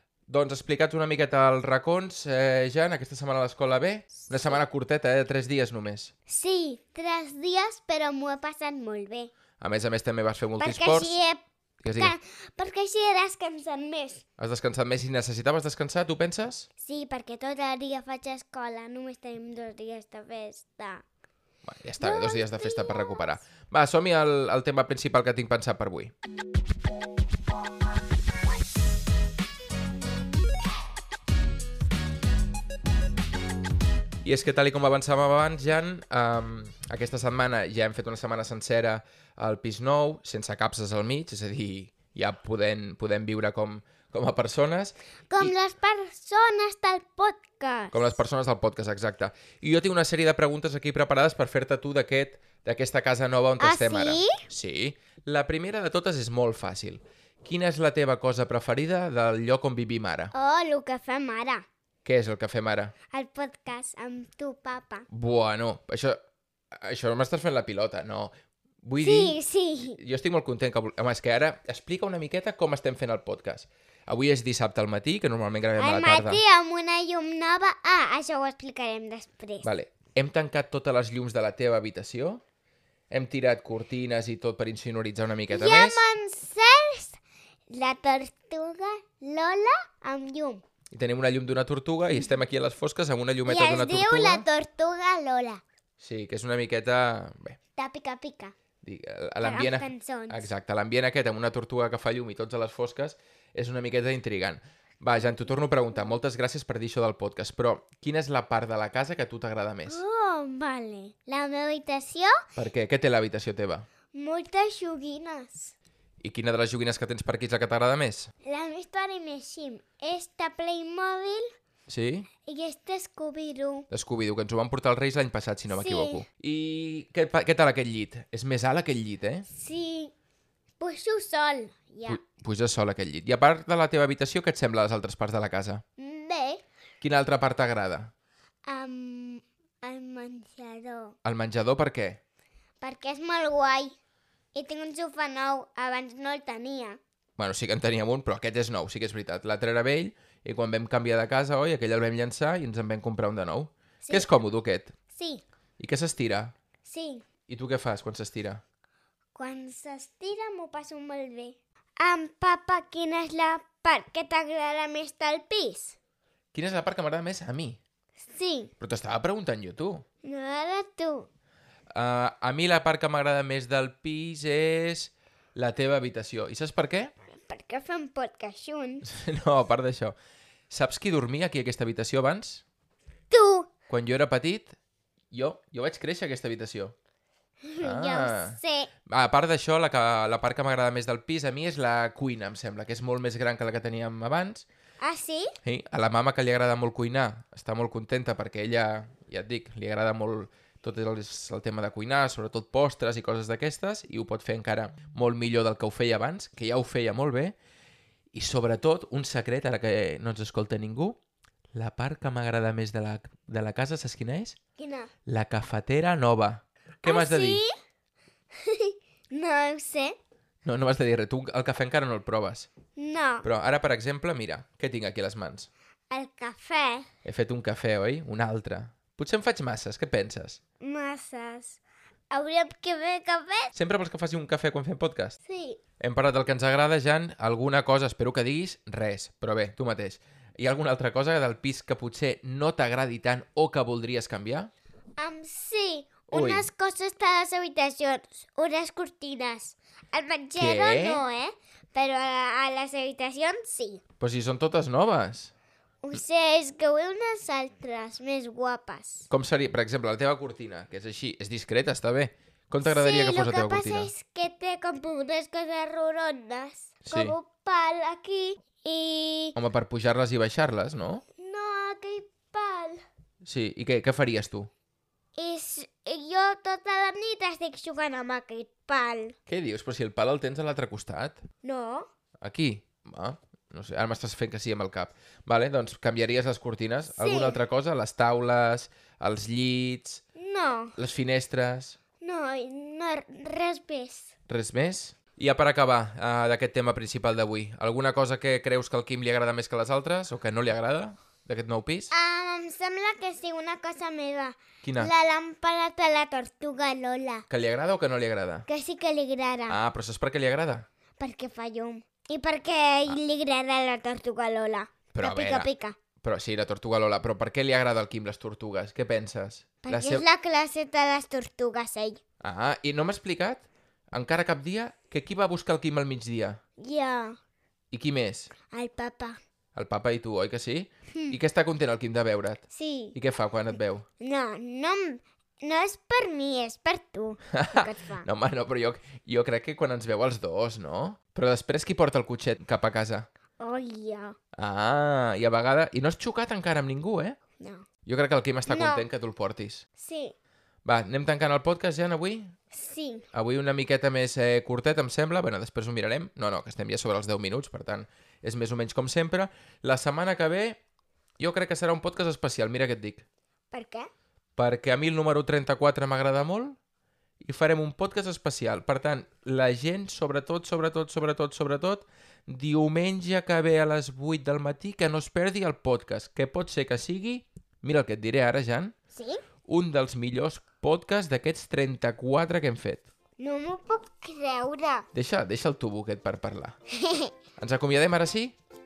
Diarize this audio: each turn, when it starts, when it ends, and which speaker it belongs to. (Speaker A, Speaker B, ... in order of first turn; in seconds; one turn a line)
Speaker A: 0.3-6.1
Speaker B: 4.3-4.6
Speaker B: 6.3-9.3
Speaker A: 9.6-11.2
Speaker B: 10.6-14.2
Speaker A: 11.8-12.1
Speaker A: 14.4-16.7
Speaker B: 16.8-21.0
Speaker A: 21.6-26.1
Speaker B: 22.0-23.4
Speaker A: 34.2-45.5
Speaker B: 45.3-48.2
Speaker A: 47.9-60.3
Speaker B: 53.6-54.5
Speaker B: 60.3-61.7
Speaker A: 62.0-62.9
Speaker B: 63.1-65.1
Speaker A: 65.1-66.2
Speaker A: 66.7-69.4
Speaker B: 69.0-70.0
Speaker A: 70.0-76.4
Speaker B: 75.8-79.7
Speaker A: 79.6-82.4
Speaker A: 83.1-86.0
Speaker B: 85.5-87.2
Speaker B: 87.7-90.6
Speaker A: 90.9-94.5
Speaker B: 93.5-95.6
Speaker A: 96.0-97.6
Speaker B: 97.8-98.5
Speaker A: 98.8-110.0
Speaker B: 99.4-100.5
Speaker B: 109.9-112.3
Speaker A: 112.6-113.9
Speaker B: 114.1-115.7
Speaker A: 116.2-118.3
Speaker B: 118.4-121.5
Speaker A: 121.9-122.3
Speaker B: 122.5-123.9
Speaker A: 123.9-129.5
Speaker B: 125.7-126.2
Speaker B: 129.5-130.1
Speaker B: 130.8-132.2
Speaker A: 132.1-135.8
Speaker B: 136.0-136.6
Speaker A: 137.0-138.1
Speaker B: 138.7-141.2
Speaker A: 141.2-142.2
Speaker B: 142.8-144.0
Speaker B: 144.5-147.0
Speaker A: 147.4-154.9
Speaker B: 154.0-154.3
Speaker B: 155.1-155.4
Speaker A: 155.8-156.6
Speaker B: 156.8-157.3
Speaker A: 157.5-158.6
Speaker B: 159.3-166.0
Speaker A: 166.5-167.8
Speaker B: 168.2-168.7
Speaker A: 168.8-170.1
Speaker B: 170.2-171.3
Speaker A: 171.9-177.1
Speaker B: 177.3-179.1
Speaker A: 179.1-180.2
Speaker A: 180.7-182.6
Speaker B: 183.3-183.7
Speaker A: 183.9-184.8
Speaker A: 185.3-186.9
Speaker B: 187.6-188.9
Speaker A: 187.8-194.7
Speaker B: 195.0-195.5
Speaker A: 195.7-207.6
Speaker A: 208.3-211.2
Speaker A: 211.7-214.6
Speaker B: 214.8-215.1
Speaker A: 215.3-217.6
Speaker B: 217.1-217.7
Speaker B: 218.6-220.2
Speaker A: 220.7-222.7
Speaker B: 223.0-223.5
Speaker A: 223.4-225.7
Speaker B: 226.1-227.1
Speaker A: 227.2-230.6
Speaker B: 230.8-231.8
Speaker B: 232.3-233.7
Speaker A: 233.7-235.4
Speaker B: 235.4-235.8
Speaker A: 236.0-244.7
Speaker B: 245.2-254.0
Speaker A: 246.3-246.7
Speaker A: 250.6-251.2
Speaker A: 254.2-255.5
Speaker B: 256.0-259.3
Speaker A: 259.3-264.1
Speaker B: 262.8-269.6
Speaker A: 267.1-267.4
Speaker A: 269.6-271.2
Speaker B: 271.4-273.0
Speaker A: 273.4-274.7
Speaker B: 275.4-279.4
Speaker A: 279.5-281.4
Speaker B: 281.6-282.1
Speaker A: 282.4-290.2
Speaker B: 287.1-287.6
Speaker B: 290.4-290.9
Speaker A: 291.0-292.0
Speaker B: 292.2-294.3
Speaker A: 294.5-302.1
Speaker B: 302.1-307.5
Speaker A: 304.8-305.1
Speaker A: 307.5-308.7
Speaker B: 308.7-309.8
Speaker A: 309.7-310.9
Speaker B: 311.2-316.0
Speaker A: 315.1-315.7
Speaker A: 316.2-320.2
Speaker B: 319.9-322.2
Speaker A: 322.4-326.6
Speaker B: 326.8-327.4
Speaker A: 327.9-328.5
Speaker B: 328.7-329.4
Speaker A: 329.8-332.6
Speaker B: 332.7-333.2
Speaker A: 333.1-334.1
Speaker B: 334.2-338.3
Speaker A: 337.5-343.3
Speaker B: 343.6-344.4
Speaker A: 344.6-347.4
Speaker B: 347.6-347.9
Speaker A: 348.1-349.8
Speaker B: 348.7-349.1
Speaker B: 350.0-350.4
Speaker A: 350.9-352.5
Speaker B: 352.7-353.2
Speaker A: 353.3-360.8
Speaker A: 361.4-363.2
Speaker B: 363.7-364.1
Speaker A: 364.6-366.8
Speaker A: 367.4-378.9
Speaker B: 379.1-379.4
Speaker A: 379.7-383.1
Speaker B: 383.4-385.1
Speaker A: 385.1-386.8
Speaker B: 387.0-387.3
Speaker A: 387.6-388.6